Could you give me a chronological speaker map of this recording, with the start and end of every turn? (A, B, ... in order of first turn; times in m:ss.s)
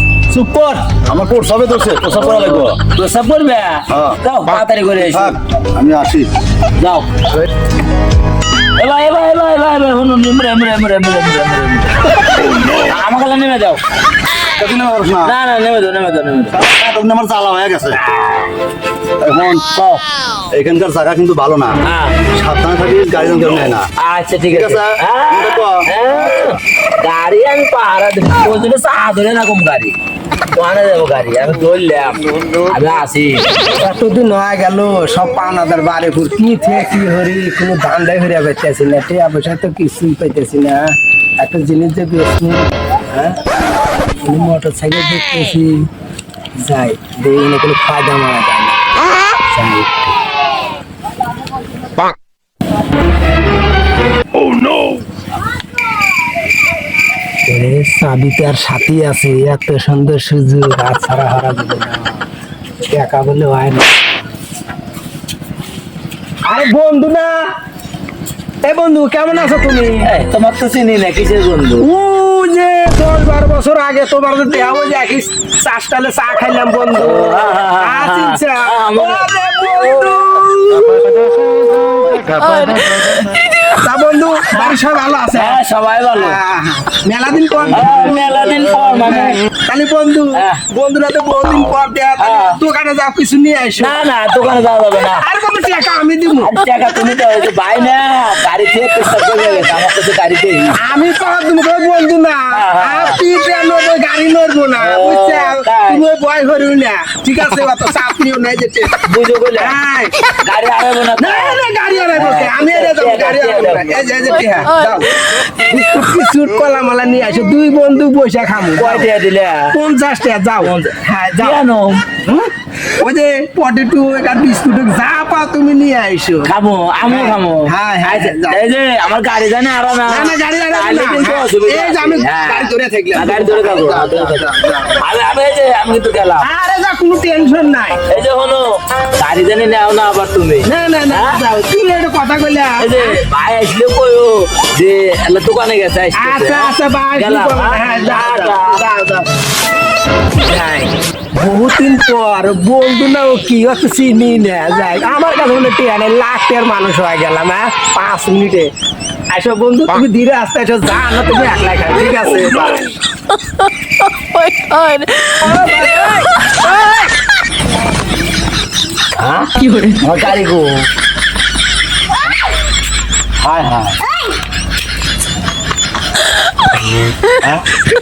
0:00.3-0:02.8 A
0:02.1-0:05.4 B
0:03.9-0:04.2 A
0:05.0-0:06.3 A
0:06.8-0:07.1 B
0:08.8-0:12.1 B
0:12.7-0:13.8 B
0:14.6-0:15.3 A
0:15.2-0:16.6 B
0:16.5-0:18.0 A
0:19.2-0:19.7 A
0:19.7-0:20.0 B
0:20.5-0:21.8 A
0:21.8-0:22.2 B
0:22.3-0:23.8 A
0:24.0-0:30.0 B
0:24.5-0:25.8 A
0:30.5-0:33.4 B
0:33.8-0:43.4 C
0:44.2-0:45.9 C
0:46.6-0:48.8 C
0:49.5-0:49.9 C
0:57.4-1:02.2 C
1:02.9-1:03.9 C
1:06.4-1:07.5 C
1:08.6-1:10.1 C
1:10.0-1:11.8 B
1:11.8-1:21.2 C
1:16.9-1:20.1 B
1:22.2-1:23.3 B
1:23.7-1:25.6 C
1:24.5-1:24.8 B
1:25.3-1:26.4 B
1:26.1-1:28.3 C
1:27.7-1:29.4 B
1:29.1-1:34.0 C
1:30.3-1:30.6 B
1:32.2-1:32.6 B
1:33.8-1:35.2 B
1:35.2-1:36.5 C
1:36.4-1:40.8 B
1:40.8-1:49.0 C
1:42.5-1:43.2 B
1:44.8-1:46.0 B
1:49.0-1:49.8 B
1:49.5-1:50.2 C
1:50.4-1:51.6 B
1:51.2-1:59.1 C
1:52.1-1:54.1 B
1:58.8-1:59.7 B
1:59.7-2:01.6 C
2:00.6-2:02.2 B
2:02.3-2:06.5 C
2:06.4-2:16.5 B
2:07.1-2:08.6 C
2:10.1-2:14.9 C
2:16.4-2:18.0 C
2:18.1-2:21.4 B
2:20.6-2:23.2 C
2:22.8-2:28.8 B
2:26.1-2:29.4 C
2:30.5-2:38.7 C
2:39.3-2:42.9 C
2:44.6-2:45.3 B
2:44.8-2:46.3 C
2:49.2-2:50.9 B
2:53.4-2:54.0 B